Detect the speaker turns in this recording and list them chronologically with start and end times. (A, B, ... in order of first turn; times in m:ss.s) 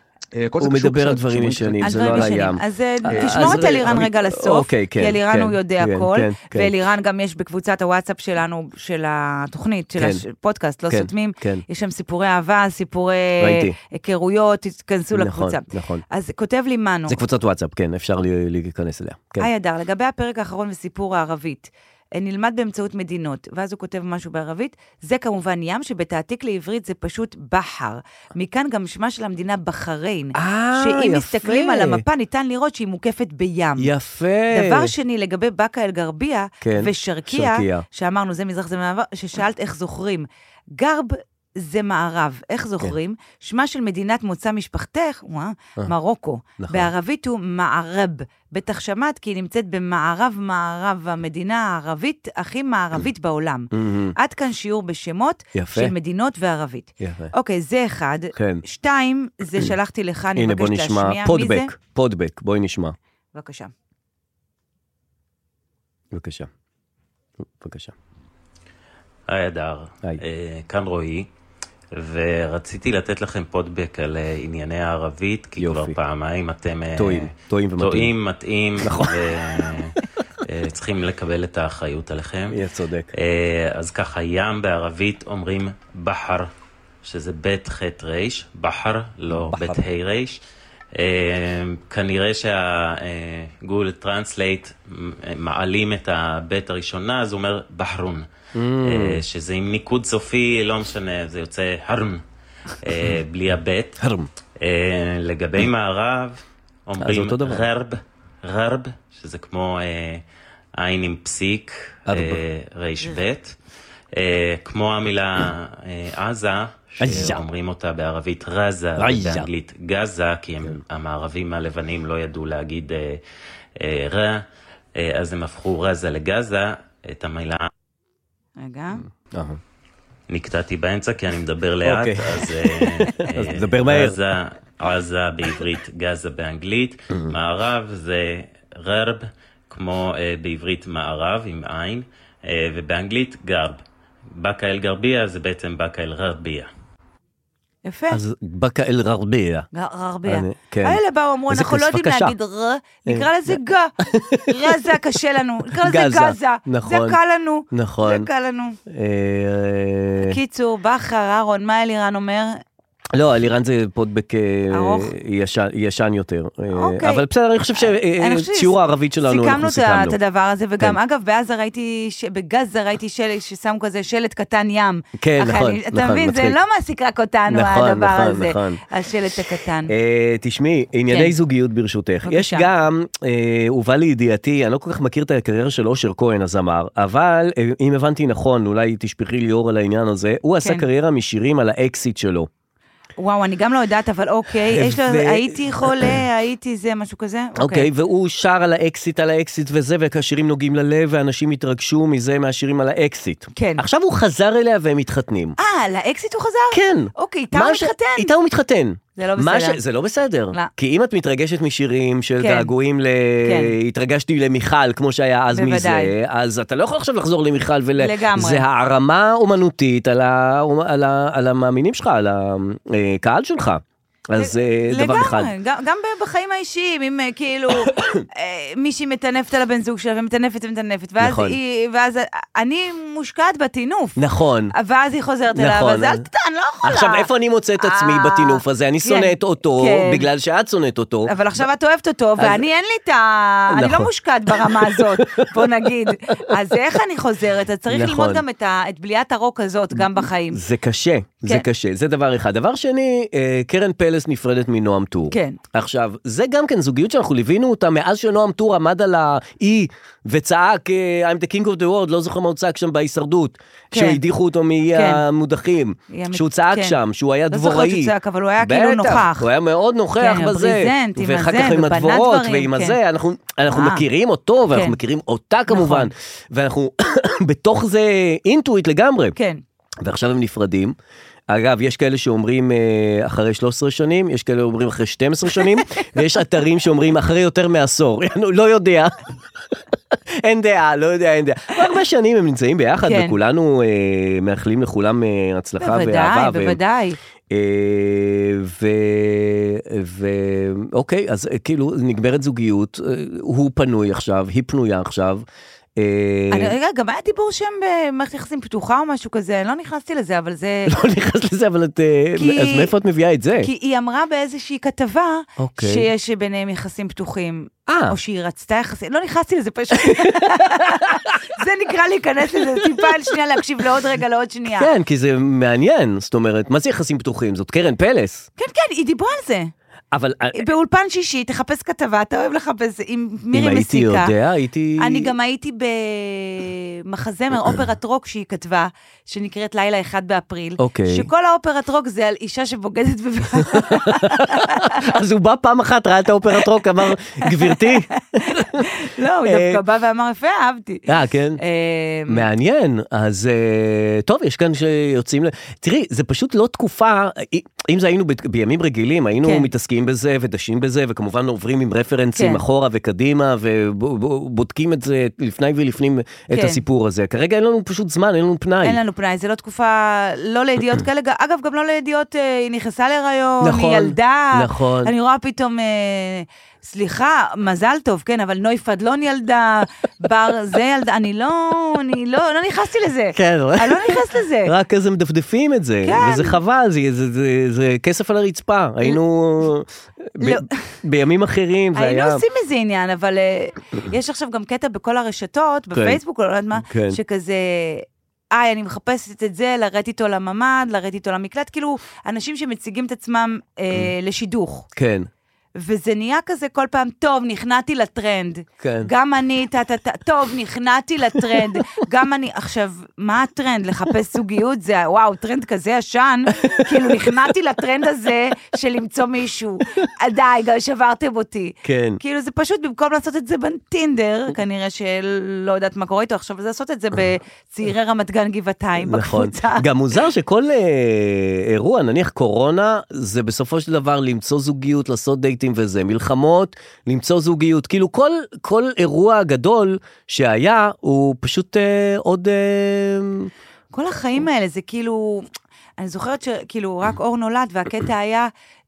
0:00.4-0:02.5 A
0:00.6-0:06.7 B
0:01.8-0:17.2 C
0:03.2-0:04.0 A
0:10.0-0:10.2 B
0:10.9-0:11.6 B
0:13.4-0:13.8 B
0:15.1-0:16.0 B
0:17.1-0:19.5 B
0:19.4-0:33.9 C
0:30.4-0:32.0 B
0:33.8-0:34.9 B
0:34.5-1:01.7 C
0:36.6-0:37.8 B
0:46.6-0:46.9 B
0:53.7-0:54.2 B
0:55.5-0:55.9 B
0:57.0-0:57.3 B
0:58.4-0:58.6 B
1:00.4-1:03.0 B
1:03.4-1:03.7 C
1:06.1-1:06.5 B
1:07.4-1:07.9 B
1:09.3-1:11.3 D
1:12.0-1:19.9 D
1:15.6-1:16.0 B
1:17.0-1:18.1 B
1:18.8-1:19.5 B
1:20.5-1:22.6 D
1:22.5-1:23.1 B
1:23.2-1:26.5 D
1:27.0-1:30.4 D
1:29.3-1:29.8 B
1:31.0-1:38.3 D
1:38.6-1:39.2 B
1:38.8-1:42.2 D
1:42.8-1:44.0 D
1:44.0-1:44.3 B
1:44.6-1:50.2 D
1:47.0-1:47.7 B
1:50.8-1:53.5 D
1:52.1-1:52.4 B
1:54.2-2:03.2 D
1:57.0-1:57.4 B
1:59.0-1:59.5 B
2:03.8-2:04.4 D
2:05.0-2:07.7 D
2:08.6-2:09.1 C
2:09.3-2:09.6 B
2:10.3-2:23.8 D
2:11.8-2:14.2 B
2:24.4-2:26.7 D
2:27.8-2:28.2 C
2:28.1-2:29.7 B
2:29.7-2:33.9 C
2:30.3-2:32.4 B
2:33.1-2:35.0 B
2:34.5-2:38.8 C
2:35.7-2:37.2 B
2:37.7-2:38.3 B
2:38.9-2:40.4 B
2:40.2-2:42.6 C
2:43.1-2:50.2 B
2:44.7-2:45.1 C
2:46.7-2:47.2 C
2:47.8-2:59.9 C
2:55.2-2:56.6 B
2:57.5-2:58.8 B
2:59.9-3:12.5 B
3:01.1-3:01.4 C
3:02.3-3:02.7 C
3:13.2-3:17.9 C
3:14.6-3:16.2 B
3:17.6-3:25.6 B
3:23.6-3:23.8 C
3:25.6-3:28.3 C
3:26.7-3:45.5 B
3:29.2-3:29.8 C
3:32.4-3:32.7 C
3:33.4-3:33.7 C
3:35.5-3:36.2 C
3:38.0-3:38.7 C
3:44.4-3:54.2 C
3:47.9-3:48.2 B
3:51.2-3:51.6 B
3:54.2-3:54.7 B
3:54.7-3:57.3 C
3:55.5-3:56.2 B
3:56.8-4:01.3 B
3:57.8-4:00.3 C
4:01.3-4:10.6 C
4:02.4-4:02.7 B
4:03.7-4:05.9 B
4:07.9-4:08.4 B
4:10.0-4:39.4 B
4:15.3-4:15.6 C
4:23.9-4:24.2 C
4:24.9-4:25.2 C
4:26.1-4:27.0 C
4:27.5-4:29.5 C
4:30.2-4:33.0 C
4:33.7-4:34.0 C
4:34.7-4:35.0 C
4:35.7-4:36.1 C
4:39.4-4:39.6 C
4:40.0-4:41.0 B
4:41.5-4:49.1 B
4:45.6-4:46.0 C
4:49.7-4:56.8 B
4:53.0-4:53.4 C
4:55.8-4:57.2 C
4:57.5-5:05.4 B
5:06.0-5:06.8 B
5:06.5-5:10.9 C
5:10.9-5:13.7 B
5:12.4-5:12.9 C
5:13.6-5:24.9 C
5:15.6-5:16.0 B
5:17.9-5:18.2 B
5:19.9-5:21.4 B
5:22.6-5:23.1 B
5:24.7-5:28.5 B
5:28.6-5:29.7 C
5:30.1-5:30.7 B
5:30.5-5:34.3 C
5:33.5-5:35.3 B
5:35.0-5:44.9 C
5:40.8-5:41.3 B
5:43.7-5:48.9 B
5:47.4-5:52.4 C
5:49.4-5:49.8 B
5:51.1-5:51.6 B
5:52.3-6:09.0 B
5:59.4-5:59.7 C
6:02.4-6:02.6 C
6:06.5-6:06.8 C
6:08.8-6:24.7 C
6:13.6-6:15.1 B
6:23.4-6:32.4 B
6:26.0-6:26.6 C
6:30.4-6:30.8 C
6:32.0-6:44.9 C
6:35.9-6:36.2 B
6:36.8-6:37.2 B
6:45.0-6:45.3 B
6:45.8-7:09.9 C
6:48.8-6:49.1 B
6:51.4-6:51.8 B
6:56.7-6:57.1 B
7:01.8-7:02.2 B
7:09.0-7:23.5 B
7:23.9-7:25.5 C
7:26.0-7:28.5 C